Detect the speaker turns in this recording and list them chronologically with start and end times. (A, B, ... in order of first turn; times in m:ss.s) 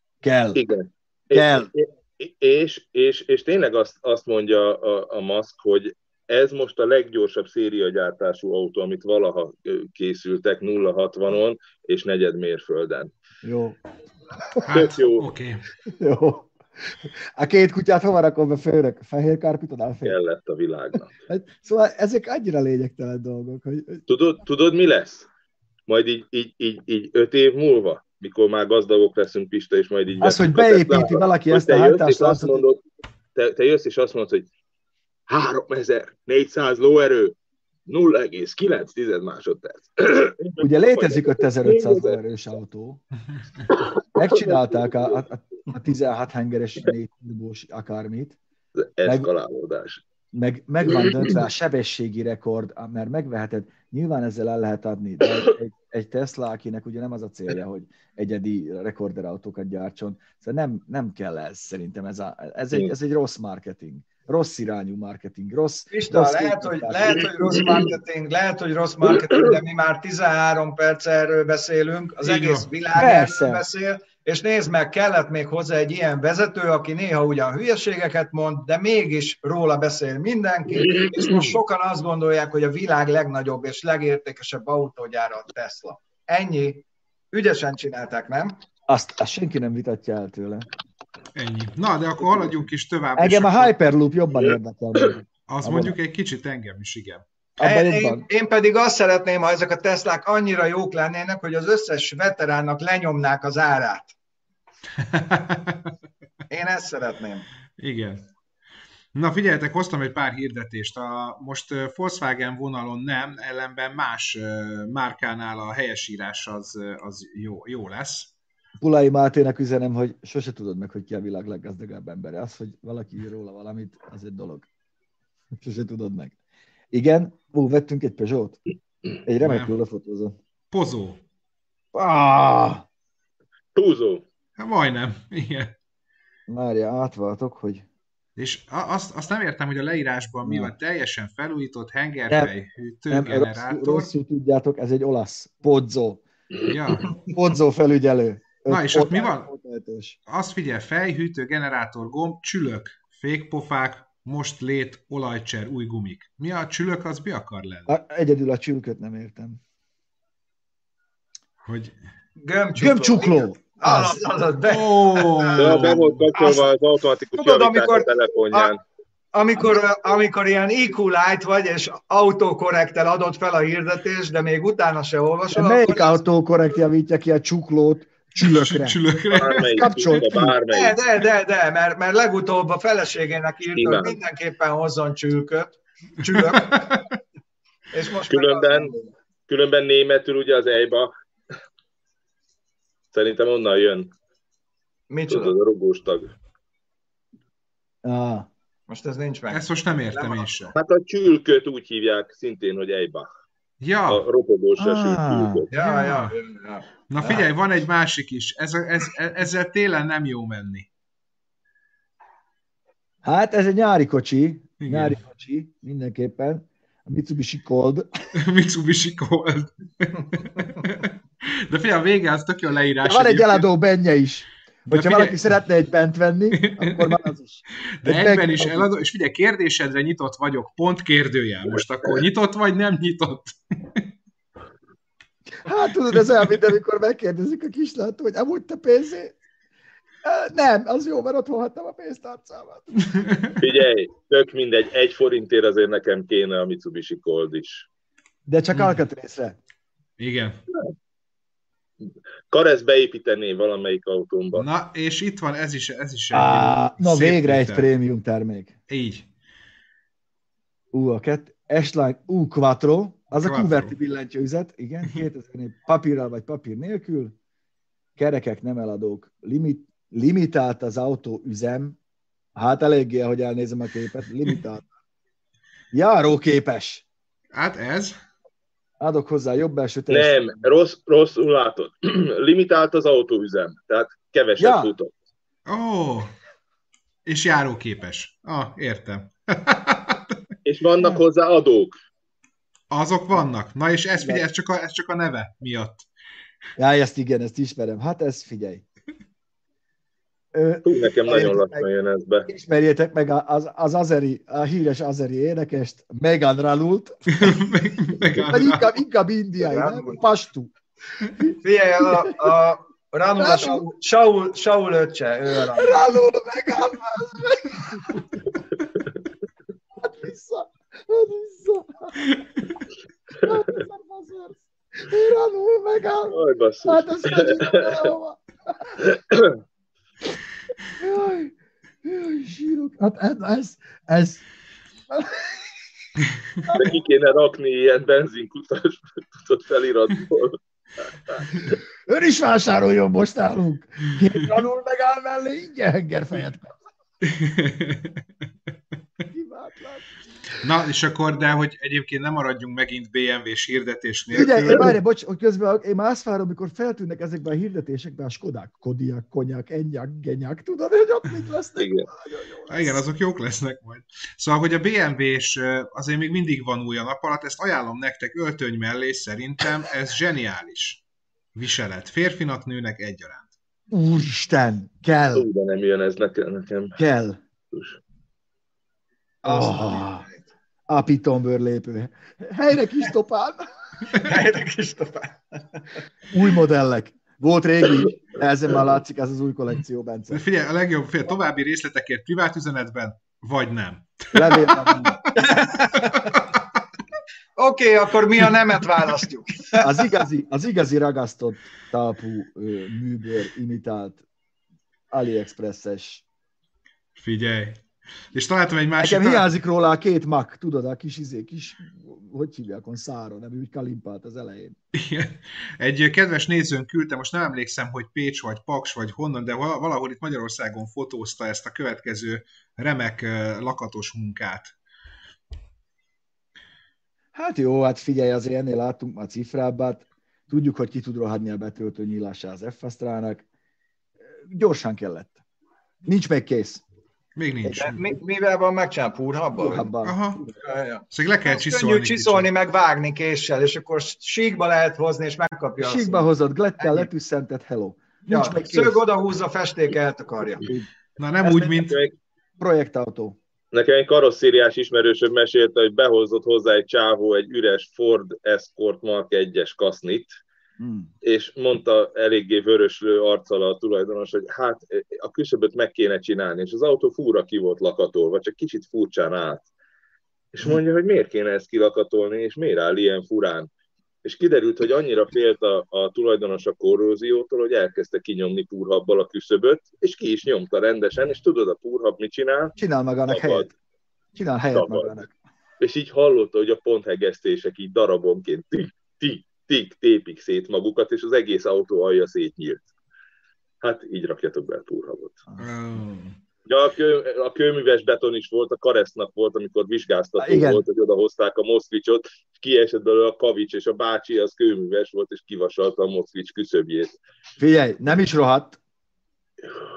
0:00.2-0:00.6 A
0:00.6-0:13.1 B
0:01.3-0:01.7 A
0:13.4-0:13.8 A
0:14.6-0:15.6 C
0:14.7-0:15.3 B
0:15.9-0:20.2 A
0:20.0-0:21.1 B
0:21.3-0:24.0 A
0:24.1-0:25.3 B
0:25.9-0:32.8 B
0:30.2-0:32.6 A
0:33.4-0:34.5 B
0:35.3-0:37.4 B
0:37.9-0:42.2 B
0:40.6-0:43.0 A
0:43.7-0:45.2 B
0:44.1-0:48.4 A
0:48.8-0:50.0 B
0:50.3-1:07.6 A
1:05.9-1:28.6 D
1:12.2-1:12.7 C
1:12.9-1:13.6 A
1:28.9-1:30.7 A
1:31.3-1:33.7 C
1:33.2-1:36.0 A
1:35.5-1:37.2 C
1:37.6-1:38.2 A
1:37.6-1:44.1 D
1:45.0-1:45.9 C
1:46.5-1:47.5 D
1:47.8-1:48.3 C
1:49.1-1:58.3 C
1:58.8-2:04.7 A
2:05.6-2:06.3 A
2:06.9-2:08.6 A
2:09.2-2:10.4 A
2:09.4-2:09.7 C
2:10.7-2:11.2 C
2:11.9-2:12.9 A
2:13.7-2:14.2 B
2:14.6-2:15.7 C
2:16.5-2:17.9 A
2:18.4-2:24.1 C
2:20.4-2:20.7 A
2:23.1-2:26.2 A
2:26.6-2:27.3 C
2:27.3-2:30.2 A
2:28.7-2:29.5 C
2:30.3-2:37.9 C
2:37.9-2:39.6 A
2:41.6-2:41.9 C
2:42.4-2:46.7 D
2:42.8-2:44.2 A
2:44.6-2:46.2 C
2:45.6-2:48.8 B
2:47.3-2:48.7 D
2:49.3-2:56.2 D
2:55.5-2:59.0 A
2:58.4-3:00.1 C
2:59.3-3:01.0 B
2:59.6-3:00.6 A
3:00.7-3:07.1 D
3:03.7-3:04.2 B
3:06.3-3:06.9 C
3:07.9-3:09.1 D
3:08.3-3:08.9 B
3:09.5-3:11.1 B
3:13.1-3:14.1 B
3:15.1-3:15.6 D
3:15.3-3:16.3 B
3:18.0-3:18.5 A
3:18.9-3:20.5 D
3:19.5-3:20.7 C
3:20.7-3:23.3 B
3:23.8-3:24.2 C
3:24.1-3:25.7 B
3:24.8-3:25.6 A
3:25.7-3:26.9 D
3:25.8-3:26.3 C
3:27.1-3:30.9 C
3:33.2-3:38.1 A
3:34.8-3:35.2 C
3:38.3-3:43.7 C
3:43.0-3:48.9 A
3:44.9-3:45.4 C
3:46.6-3:47.2 C
3:48.0-3:54.1 C
3:55.6-3:59.4 A
4:00.2-4:02.9 A
4:03.1-4:03.6 C
4:03.6-4:07.9 B
4:08.5-4:09.6 A
4:08.7-4:09.0 C
4:10.2-4:10.6 C
4:12.5-4:14.7 B
4:14.5-4:17.9 C
4:16.3-4:18.8 A
4:18.9-4:19.2 C
4:20.9-4:27.3 A
4:23.4-4:23.9 C
4:28.2-4:32.0 A
4:32.6-4:34.9 A
4:35.9-4:37.0 A
4:37.5-4:38.1 C
4:39.0-4:40.7 A
4:40.1-4:45.1 B
4:44.6-4:44.9 A
4:45.6-4:46.3 C
4:47.2-4:50.4 C
4:50.6-4:52.0 B
4:52.9-4:56.0 C
4:54.1-4:54.4 A
4:56.8-4:58.8 A
5:00.5-5:01.9 A
5:00.8-5:02.5 B
5:02.5-5:07.6 A
5:07.3-5:09.0 C
5:08.3-5:10.7 A
5:09.6-5:10.2 D
5:11.4-5:12.5 A
5:11.6-5:16.0 D
5:13.4-5:13.9 A
5:15.7-5:18.2 A
5:20.0-5:22.2 A
5:23.4-5:29.0 A
5:26.3-5:28.1 B
5:29.0-5:29.6 B
5:31.0-5:34.4 A
5:35.1-5:35.8 A
5:36.6-5:36.9 A
5:36.7-5:40.6 B
5:41.3-5:41.6 B
5:42.1-5:46.8 A
5:47.2-5:48.2 C
5:49.3-5:50.0 A
5:50.6-5:54.9 C
5:54.3-6:03.0 A
6:01.8-6:02.1 B
6:02.7-6:11.0 C
6:11.6-6:13.5 C
6:13.9-6:15.4 A
6:15.3-6:17.0 B
6:17.0-6:17.4 A
6:17.7-6:18.0 B
6:19.4-6:20.5 D
6:19.4-6:20.2 A
6:20.9-6:23.7 A
6:24.1-6:26.0 D
6:26.3-6:30.4 A
6:30.3-6:36.4 C
6:34.3-6:35.2 A
6:35.3-6:36.4 D
6:37.6-6:40.0 D
6:39.8-6:44.2 A
6:45.1-6:46.2 A
6:47.2-6:47.8 C
6:48.3-6:49.4 C
6:49.0-6:54.8 A
6:54.9-7:04.7 C
7:07.3-7:13.4 A
7:14.2-7:15.4 A
7:16.0-7:16.8 A
7:17.4-7:18.0 C
7:17.6-7:18.0 A
7:17.9-7:19.8 D
7:19.5-7:20.6 A
7:20.0-7:20.4 C
7:20.6-7:26.2 D
7:21.1-7:22.5 C
7:25.8-7:29.0 A
7:26.8-7:27.1 D
7:28.3-7:30.7 D
7:31.2-7:32.0 C
7:31.4-7:32.1 B
7:32.6-7:33.4 A
7:33.7-7:40.4 B
7:40.8-7:41.1 A
7:41.2-7:49.7 B
7:50.5-7:53.7 B
7:54.2-8:02.7 B
8:02.8-8:03.7 A
8:03.3-8:03.7 B
8:04.3-8:05.3 A
8:04.7-8:05.2 B
8:05.8-8:12.9 B
8:13.8-8:15.4 B
8:15.6-8:16.4 C
8:16.6-8:27.1 B
8:20.4-8:20.8 A
8:27.6-8:28.8 A